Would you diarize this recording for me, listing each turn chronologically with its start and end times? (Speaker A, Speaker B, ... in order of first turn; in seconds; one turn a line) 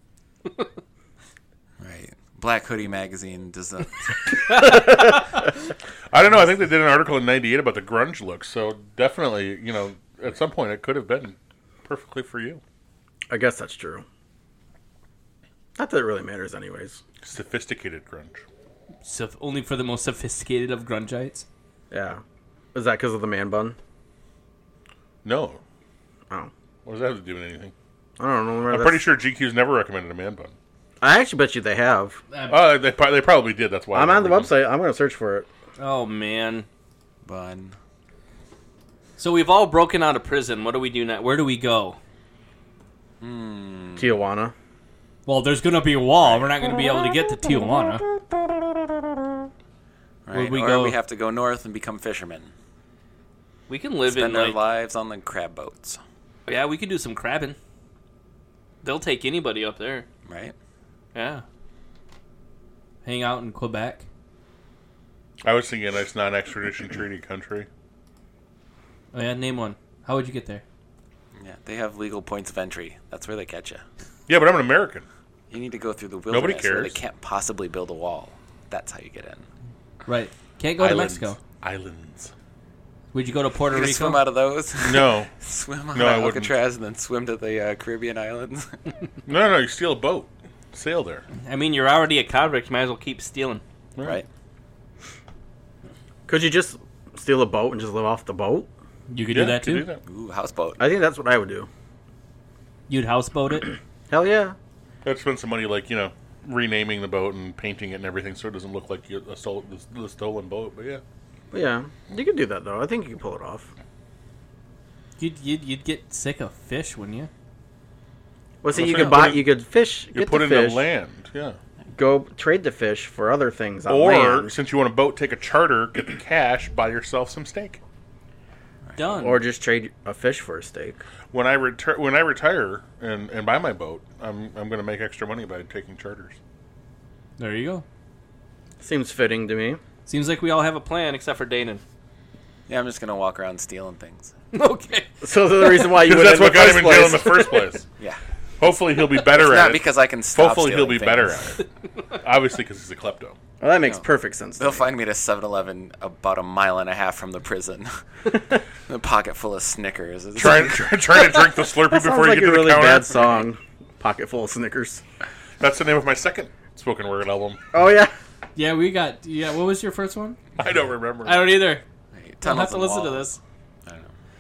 Speaker A: 1.8-4.7
Speaker B: 4.5-5.2
Speaker C: 6.1-12.6
Speaker D: 13.3-14.1
Speaker D: 15.8-17.0
Speaker C: 17.2-18.4
Speaker B: 19.0-21.5
Speaker D: 21.9-22.2
Speaker D: 22.8-23.8
Speaker C: 25.2-25.6
Speaker C: 26.9-27.7
Speaker D: 28.2-29.0
Speaker C: 28.7-30.6
Speaker D: 31.0-32.2
Speaker B: 32.3-32.6
Speaker C: 32.5-34.5
Speaker D: 33.9-35.5
Speaker B: 35.8-36.7
Speaker A: 37.2-37.8
Speaker B: 39.2-42.0
Speaker A: 43.2-44.2
Speaker D: 44.0-44.5
Speaker B: 45.3-48.0
Speaker A: 46.2-46.6
Speaker A: 50.3-52.5
Speaker B: 50.3-51.0
Speaker B: 53.7-54.6
Speaker A: 54.1-56.0
Speaker B: 56.5-57.6
Speaker B: 58.8-60.1
Speaker A: 60.2-60.5
Speaker B: 61.1-61.4
Speaker B: 63.0-64.0
Speaker C: 65.4-67.7
Speaker B: 69.1-70.6
Speaker A: 71.4-73.8
Speaker C: 74.3-75.1
Speaker A: 75.5-79.5
Speaker C: 76.3-77.0
Speaker B: 80.1-81.4
Speaker C: 80.8-82.3
Speaker B: 83.1-84.2
Speaker A: 83.7-88.8
Speaker C: 84.8-85.3
Speaker C: 85.9-86.5
Speaker C: 89.3-91.2
Speaker B: 91.5-93.6
Speaker A: 94.0-94.3
Speaker D: 96.3-98.7
Speaker B: 99.1-99.9
Speaker C: 99.3-100.0
Speaker A: 100.0-100.8
Speaker D: 100.8-101.7
Speaker B: 102.9-103.7
Speaker D: 104.1-104.6
Speaker C: 105.0-111.0
Speaker D: 111.5-113.7
Speaker B: 115.2-117.3
Speaker D: 118.6-120.8
Speaker C: 118.7-119.5
Speaker C: 120.1-121.6
Speaker D: 121.9-124.5
Speaker C: 123.9-127.8
Speaker A: 128.8-129.3
Speaker B: 129.0-129.4
Speaker D: 129.2-131.0
Speaker C: 131.3-136.4
Speaker B: 137.4-137.8
Speaker D: 138.8-139.8
Speaker B: 140.1-141.8
Speaker A: 142.7-144.3
Speaker B: 144.5-145.1
Speaker D: 145.2-147.7
Speaker B: 145.6-145.9
Speaker C: 146.0-147.9
Speaker C: 148.6-151.6
Speaker A: 149.2-151.5
Speaker C: 152.2-153.4
Speaker D: 153.6-154.9
Speaker A: 154.6-158.0
Speaker A: 158.9-161.2
Speaker C: 160.4-163.4
Speaker D: 161.9-165.0
Speaker C: 165.6-167.6
Speaker D: 167.7-168.1
Speaker B: 168.6-170.4
Speaker C: 170.6-171.6
Speaker B: 171.2-171.8
Speaker A: 172.1-173.3
Speaker B: 172.4-173.4
Speaker A: 173.8-174.2